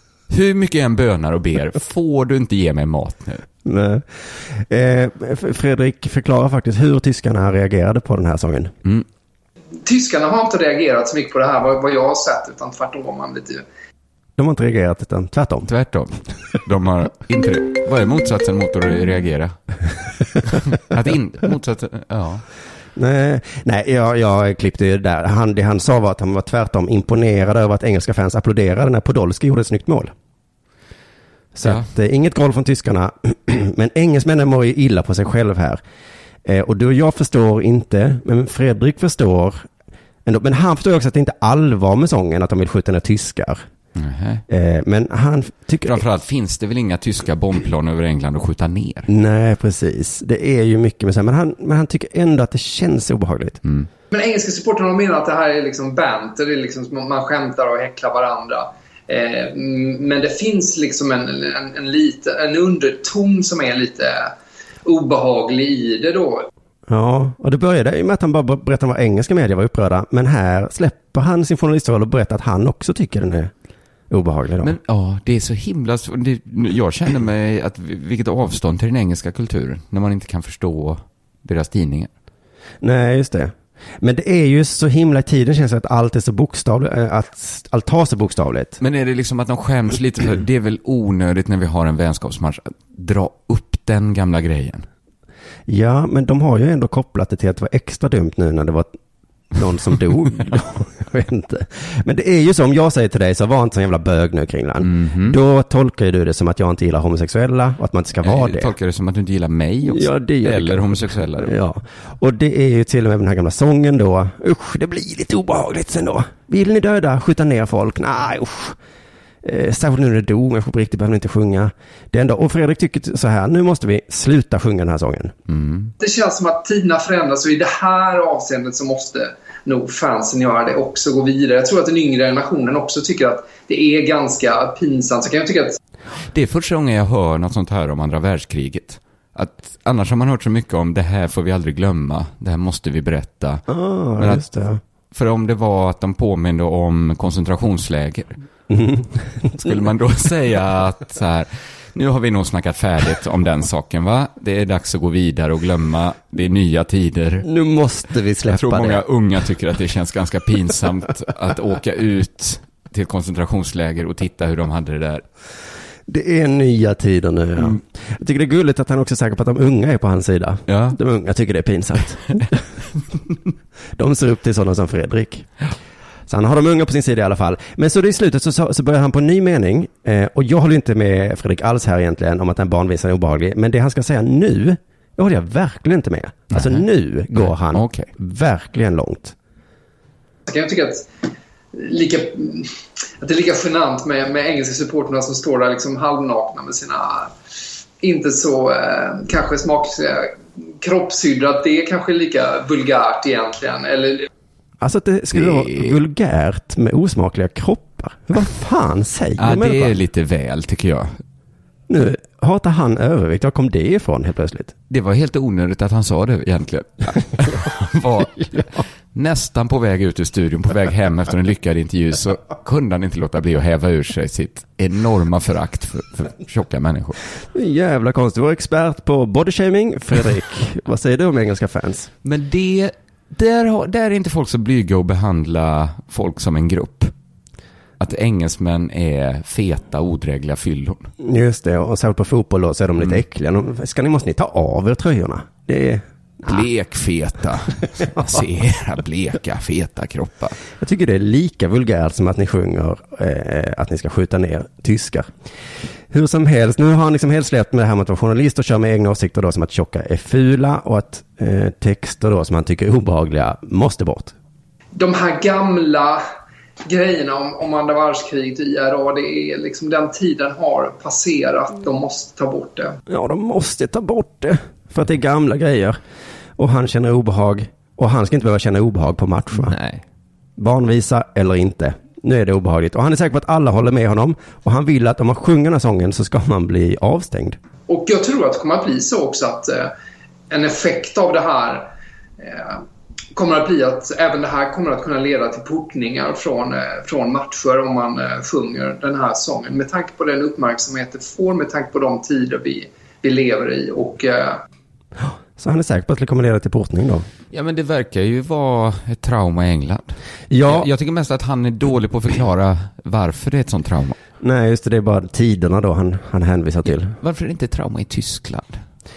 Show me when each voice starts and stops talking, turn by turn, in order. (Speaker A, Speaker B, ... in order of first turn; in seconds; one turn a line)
Speaker A: 0.3-3.4
Speaker B: 3.6-8.7
Speaker C: 9.8-13.6
Speaker B: 14.4-15.7
Speaker A: 15.7-19.6
Speaker A: 20.4-22.4
Speaker B: 22.9-30.1
Speaker B: 31.5-35.8
Speaker B: 36.4-39.6
Speaker B: 40.2-43.6
Speaker A: 44.0-44.4
Speaker B: 44.5-46.0
Speaker A: 45.9-49.1
Speaker B: 49.1-53.6
Speaker C: 54.1-64.3
Speaker C: 64.8-66.5
Speaker B: 66.9-73.5
Speaker B: 74.1-74.7
Speaker A: 74.6-82.1
Speaker B: 82.8-88.8
Speaker A: 88.8-94.9
Speaker B: 95.7-98.9
Speaker B: 99.5-108.7
Speaker A: 104.8-105.4
Speaker A: 108.2-111.5
Speaker B: 109.8-118.8
Speaker B: 119.4-125.3
Speaker A: 125.5-125.9
Speaker C: 126.0-135.8
Speaker A: 136.3-143.6
Speaker B: 143.7-144.8
Speaker A: 144.2-144.4
Speaker A: 145.1-148.3
Speaker B: 148.7-149.7
Speaker A: 149.6-157.4
Speaker B: 157.4-159.0
Speaker A: 158.5-165.2
Speaker B: 166.1-172.6
Speaker A: 170.7-171.0
Speaker B: 173.9-175.5
Speaker B: 176.3-189.3
Speaker A: 186.5-188.1
Speaker C: 190.5-191.1
Speaker C: 191.7-197.3
Speaker C: 198.0-204.3
Speaker B: 204.8-210.0
Speaker A: 205.3-205.9
Speaker A: 209.4-211.2
Speaker B: 211.9-214.7
Speaker A: 214.9-227.2
Speaker B: 227.5-232.1
Speaker A: 232.2-237.1
Speaker A: 238.0-241.1
Speaker B: 241.2-246.6
Speaker A: 246.5-250.6
Speaker B: 250.8-255.3
Speaker B: 256.1-264.3
Speaker C: 264.9-266.2
Speaker C: 266.9-273.0
Speaker B: 273.1-276.0
Speaker B: 276.6-279.8
Speaker A: 279.5-280.0
Speaker B: 280.6-287.6
Speaker C: 287.9-289.9
Speaker C: 290.5-292.8
Speaker C: 293.3-304.6
Speaker B: 305.2-307.3
Speaker A: 307.5-314.2
Speaker B: 310.5-310.9
Speaker B: 314.4-317.1
Speaker A: 316.9-318.8